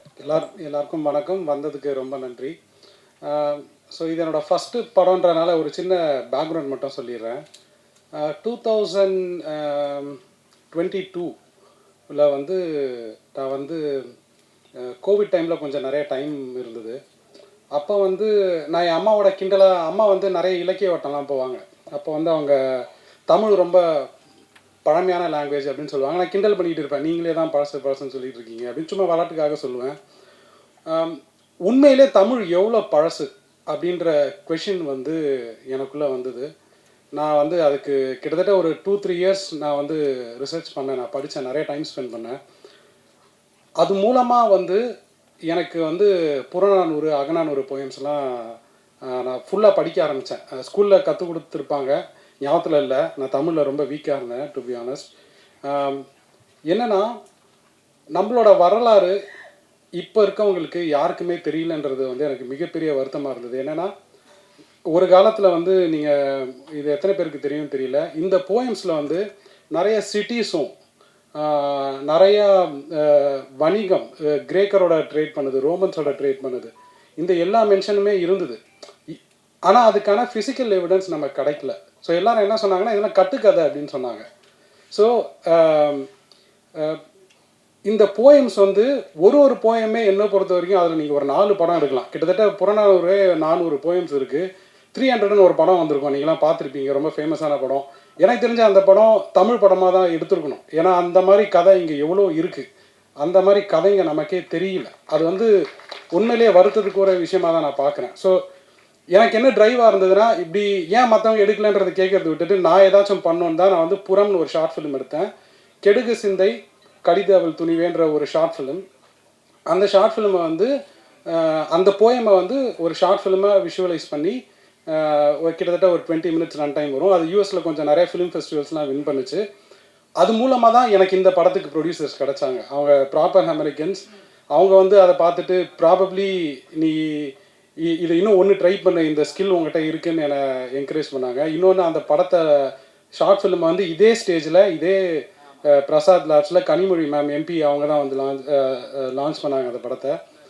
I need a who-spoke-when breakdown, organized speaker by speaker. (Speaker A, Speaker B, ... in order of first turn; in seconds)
Speaker A: 0.2-2.5, 3.2-7.4, 8.2-10.2, 10.7-11.3, 12.1-14.1, 14.8-17.0, 17.7-24.1, 24.9-29.9, 30.9-36.5, 37.2-42.4, 43.8-44.8, 45.5-55.1, 55.7-56.0, 56.7-57.1, 58.1-59.2, 60.0-63.9, 64.9-70.7, 71.3-84.2, 84.9-86.1, 86.8-87.0, 87.9-102.7, 103.2-105.5, 106.1-108.4, 109.1-115.3, 115.8-118.8, 119.7-120.7, 121.3-124.4, 124.9-129.4, 130.2-150.1